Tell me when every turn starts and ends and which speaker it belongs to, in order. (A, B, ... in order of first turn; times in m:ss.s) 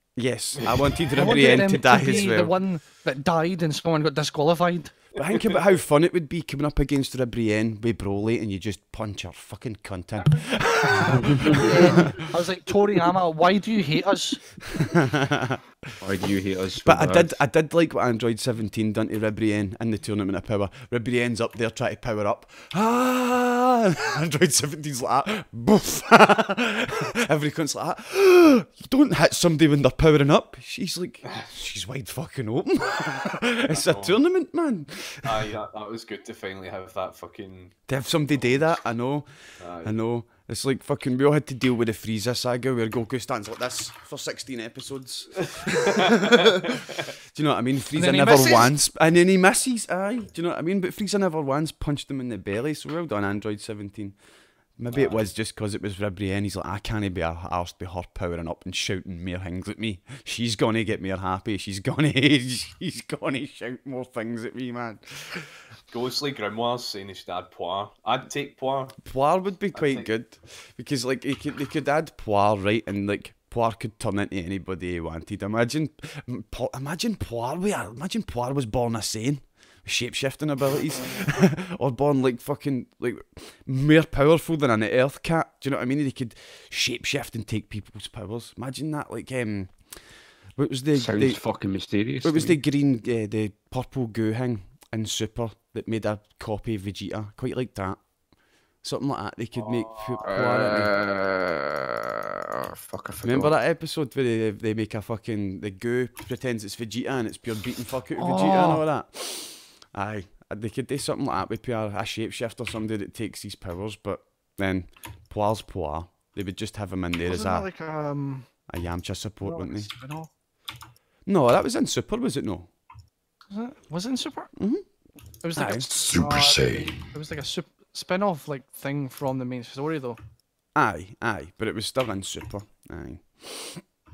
0:00.2-0:02.6 A
0:01.1-0:05.0 B
0:05.2-0:12.2 A
0:05.3-0:05.6 C
0:11.3-0:11.6 D
0:11.6-0:14.4 B
0:14.7-0:15.6 A
0:16.0-0:17.4 D
0:16.8-0:35.5 A
0:33.6-0:34.2 C
0:35.2-0:37.8 C
0:37.9-0:39.3 A
0:39.6-0:40.0 C
0:39.8-0:54.2 A
0:45.6-0:46.3 C
0:48.0-0:48.7 B
0:54.8-1:05.5 A
0:54.9-0:55.2 C
1:05.9-1:09.0 C
1:09.0-1:29.7 A
1:09.7-1:10.1 C
1:30.6-1:31.4 A
1:30.9-1:32.6 D
1:32.2-1:38.0 A
1:38.8-1:40.9 A
1:39.5-1:40.3 C
1:40.2-1:42.4 D
1:42.9-1:43.5 D
1:43.2-1:57.7 A
1:48.2-1:48.8 B
1:57.2-1:58.4 B
1:58.7-1:59.9 A
1:59.4-2:00.3 B
2:01.2-2:02.7 A
2:03.5-2:04.5 B
2:04.6-2:04.8 A
2:05.4-2:10.2 B
2:05.5-2:05.9 A
2:05.9-2:07.0 D
2:10.7-2:13.8 A